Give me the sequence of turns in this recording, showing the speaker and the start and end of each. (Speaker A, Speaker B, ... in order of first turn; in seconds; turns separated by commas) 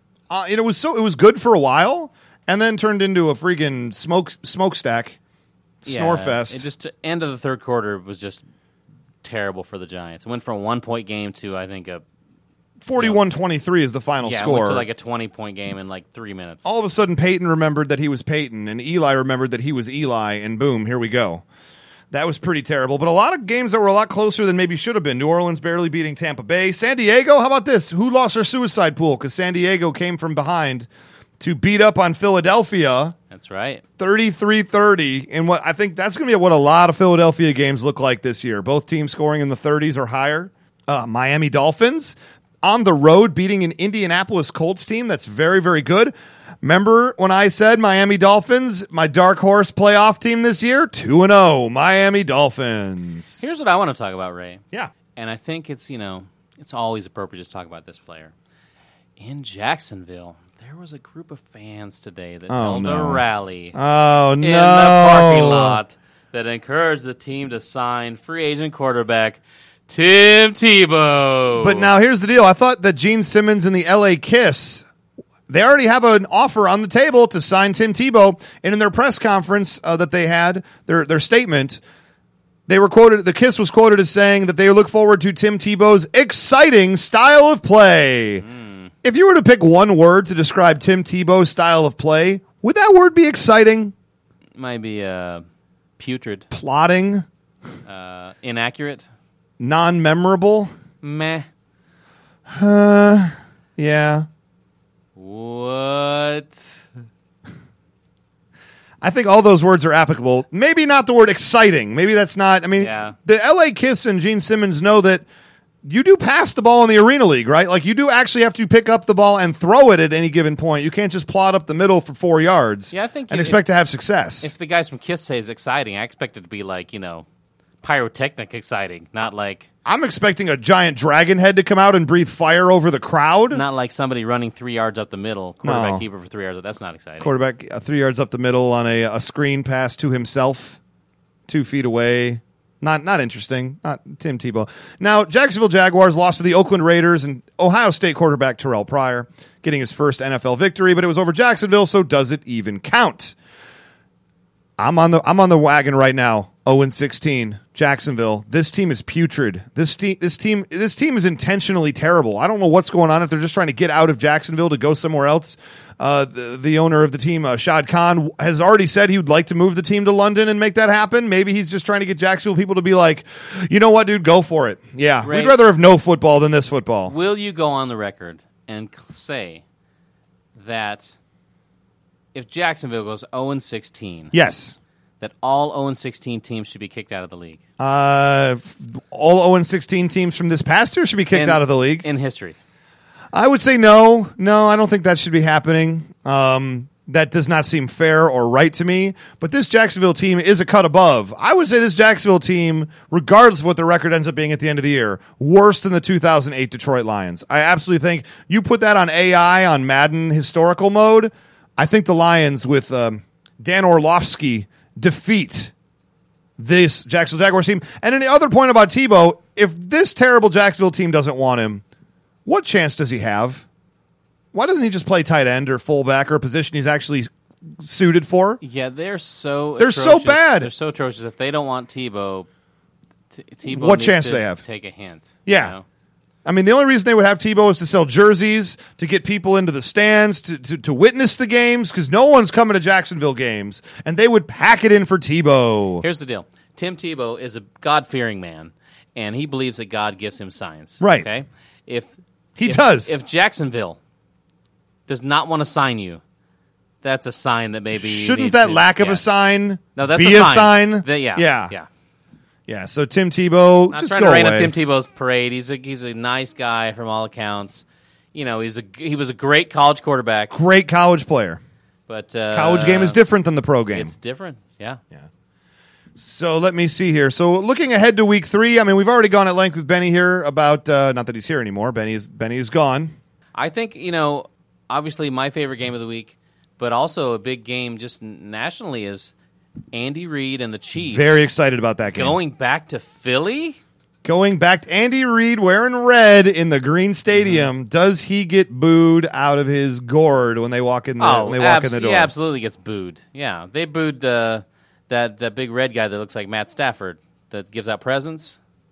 Speaker A: 0.3-5.2, Speaker A: 5.8-6.6, Speaker B: 5.8-8.4, Speaker B: 9.2-12.0, Speaker A: 12.8-14.8, Speaker B: 14.2-16.7, Speaker A: 16.6-21.4, Speaker A: 22.1-30.9, Speaker A: 31.4-33.1, Speaker B: 33.3-33.8, Speaker A: 34.0-53.4, Speaker B: 53.4-54.6, Speaker B: 55.1-58.3, Speaker B: 59.2-63.8, Speaker A: 62.5-63.2, Speaker A: 63.7-65.8, Speaker B: 64.4-71.9, Speaker A: 71.6-74.8, Speaker A: 75.5-81.8, Speaker A: 82.7-88.4, Speaker B: 88.4-88.9, Speaker A: 89.0-93.9, Speaker B: 94.6-95.4, Speaker B: 96.0-96.5, Speaker A: 96.5-97.2, Speaker B: 97.8-99.1, Speaker A: 99.6-100.7, Speaker B: 101.0-101.5, Speaker A: 102.5-104.3, Speaker B: 105.2-106.8, Speaker A: 109.0-115.2, Speaker B: 112.8-113.2, Speaker A: 115.8-124.5, Speaker B: 122.9-123.6, Speaker B: 124.4-127.2, Speaker B: 127.8-129.7, Speaker A: 129.8-133.6, Speaker B: 133.5-137.3, Speaker A: 135.6-136.0, Speaker A: 137.2-140.8, Speaker A: 141.5-153.3, Speaker A: 154.8-177.1, Speaker B: 175.2-175.6, Speaker B: 177.1-179.6, Speaker B: 180.6-181.1, Speaker B: 182.3-184.3, Speaker A: 184.3-184.8, Speaker B: 185.2-187.6, Speaker A: 187.8-192.0, Speaker B: 191.3-192.6, Speaker A: 193.3-215.7, Speaker A: 216.6-221.8, Speaker A: 222.4-223.6, Speaker A: 224.5-228.6, Speaker B: 228.6-232.5, Speaker A: 229.8-230.7, Speaker B: 233.3-235.8, Speaker A: 233.7-234.6, Speaker A: 235.4-235.7, Speaker A: 236.4-246.0, Speaker B: 246.0-252.1, Speaker A: 251.0-251.3, Speaker A: 252.6-253.2, Speaker B: 252.6-254.0, Speaker B: 255.1-256.2, Speaker B: 257.0-259.3, Speaker A: 257.9-261.7, Speaker B: 259.9-261.9, Speaker A: 262.7-264.7, Speaker B: 263.9-270.5, Speaker A: 270.5-271.6, Speaker B: 272.1-273.2, Speaker A: 272.5-274.1, Speaker B: 273.9-275.0, Speaker A: 276.2-283.1, Speaker B: 283.5-289.3, Speaker B: 289.9-291.5, Speaker A: 291.0-292.4, Speaker B: 292.1-293.8, Speaker A: 294.2-302.3, Speaker B: 297.4-297.7, Speaker B: 301.2-308.6